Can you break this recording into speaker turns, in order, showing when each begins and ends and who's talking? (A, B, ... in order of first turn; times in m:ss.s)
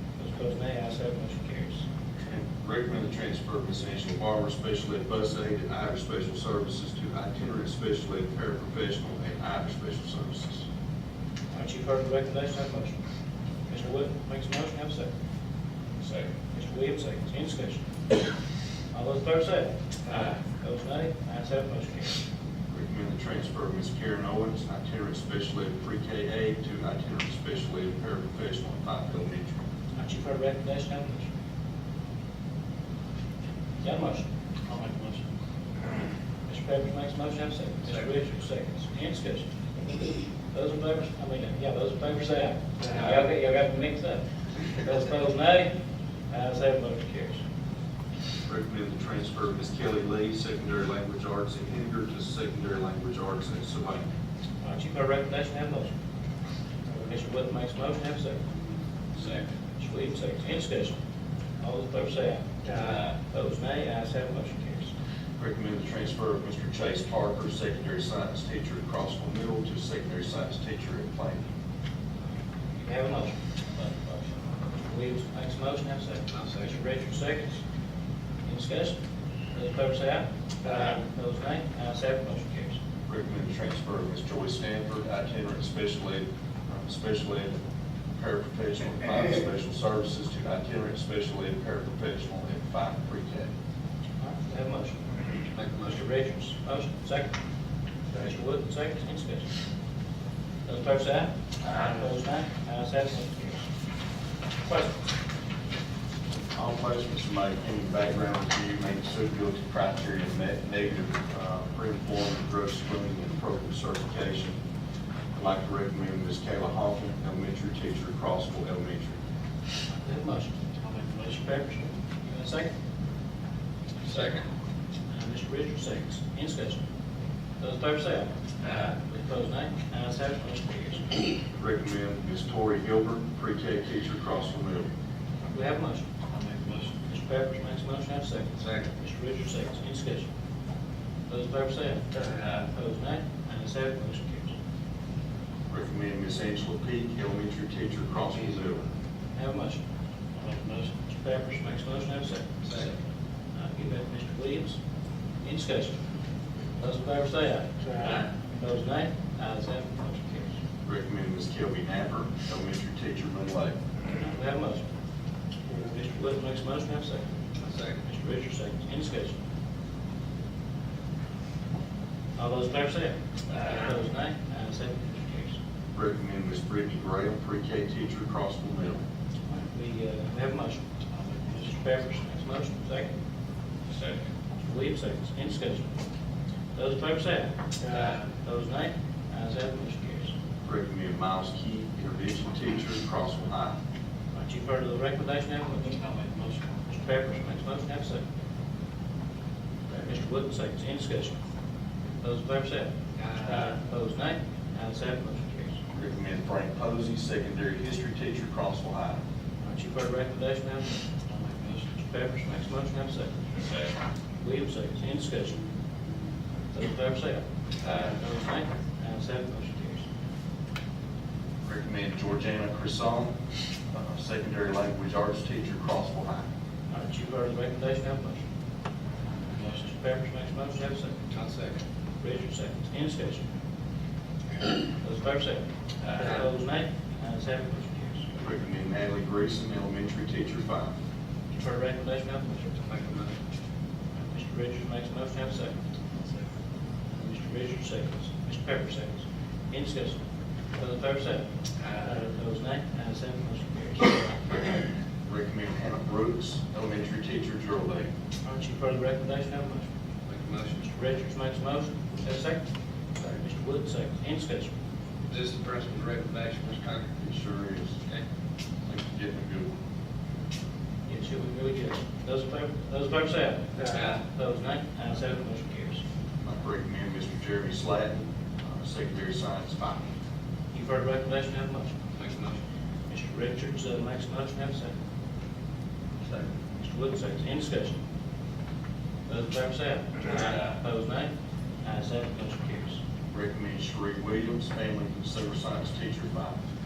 0:00.2-0:01.8 A
0:02.3-0:10.6 B
0:11.5-0:13.0 A
0:13.7-0:15.1 A
0:16.5-0:17.8 A
0:18.9-0:22.2 A
0:22.7-0:29.6 B
0:29.9-0:31.3 A
0:33.8-0:34.2 A
0:36.5-0:45.7 A
0:42.8-0:43.2 C
0:46.3-0:47.4 A
0:48.4-0:54.0 B
0:54.6-0:55.9 A
0:57.0-0:58.4 A
0:59.2-0:59.4 C
0:59.8-1:01.0 A
1:01.6-1:04.9 A
1:05.4-1:11.4 B
1:12.8-1:14.3 A
1:14.8-1:17.6 A
1:16.3-1:16.7 C
1:18.4-1:19.0 A
1:19.5-1:22.8 A
1:23.1-1:26.2 B
1:26.8-1:27.5 B
1:28.2-1:33.5 B
1:34.2-1:35.0 A
1:35.5-1:36.0 C
1:35.8-1:37.3 A
1:38.1-1:39.5 A
1:40.6-1:43.6 A
1:46.5-1:54.6 B
1:55.3-1:59.2 B
1:59.9-2:02.7 A
2:04.0-2:04.4 C
2:05.1-2:06.8 A
2:07.6-2:08.3 A
2:08.6-2:08.9 C
2:09.0-2:11.2 A
2:11.5-2:14.9 B
2:15.5-2:16.1 A
2:16.5-2:16.8 C
2:17.0-2:20.3 A
2:18.6-2:18.9 C
2:21.3-2:22.0 A
2:22.2-2:22.6 C
2:22.6-2:24.5 A
2:25.7-2:28.8 B
2:29.4-2:29.8 A
2:30.4-2:32.5 A
2:32.6-2:32.9 C
2:33.6-2:34.8 A
2:35.4-2:36.0 A
2:36.8-2:40.6 A
2:40.8-2:43.8 B
2:44.2-2:44.8 A
2:45.8-2:47.3 A
2:47.6-2:48.0 C
2:48.0-2:49.4 A
2:52.4-2:55.6 A
2:55.9-2:59.0 B
2:59.5-3:00.8 A
3:01.3-3:03.1 A
3:04.6-3:05.9 A
3:06.7-3:10.3 A
3:07.9-3:08.2 C
3:10.6-3:13.8 B
3:14.3-3:16.1 A
3:16.8-3:18.2 A
3:20.0-3:21.4 A
3:22.2-3:22.9 A
3:23.2-3:23.6 C
3:23.4-3:25.8 A
3:25.9-3:29.2 B
3:29.6-3:31.2 A
3:31.8-3:33.4 A
3:34.4-3:35.6 A
3:36.7-3:40.0 A
3:41.6-3:43.4 B
3:43.9-3:46.4 B
3:46.9-3:48.4 A
3:49.6-3:51.1 A
3:51.3-3:51.8 C
3:52.2-3:53.5 A
3:55.0-3:58.2 A
3:56.0-3:56.4 C
3:58.3-4:00.9 B
4:01.5-4:02.7 A
4:02.8-4:03.3 C
4:04.2-4:05.8 A
4:07.1-4:10.2 A
4:10.8-4:11.5 A
4:11.8-4:12.1 C
4:12.0-4:14.3 A
4:15.2-4:18.1 B
4:18.4-4:19.9 A
4:20.3-4:20.8 C
4:20.8-4:22.6 A
4:23.3-4:24.7 A
4:25.3-4:27.1 C
4:27.2-4:28.0 B
4:28.9-4:29.7 B
4:31.1-4:36.0 A
4:33.8-4:34.2 C
4:36.4-4:40.1 B
4:40.7-4:42.0 A
4:42.2-4:42.6 C
4:43.1-4:44.9 A
4:46.8-4:48.0 A
4:49.3-4:51.3 A
4:51.8-4:53.0 A
4:53.3-4:56.6 B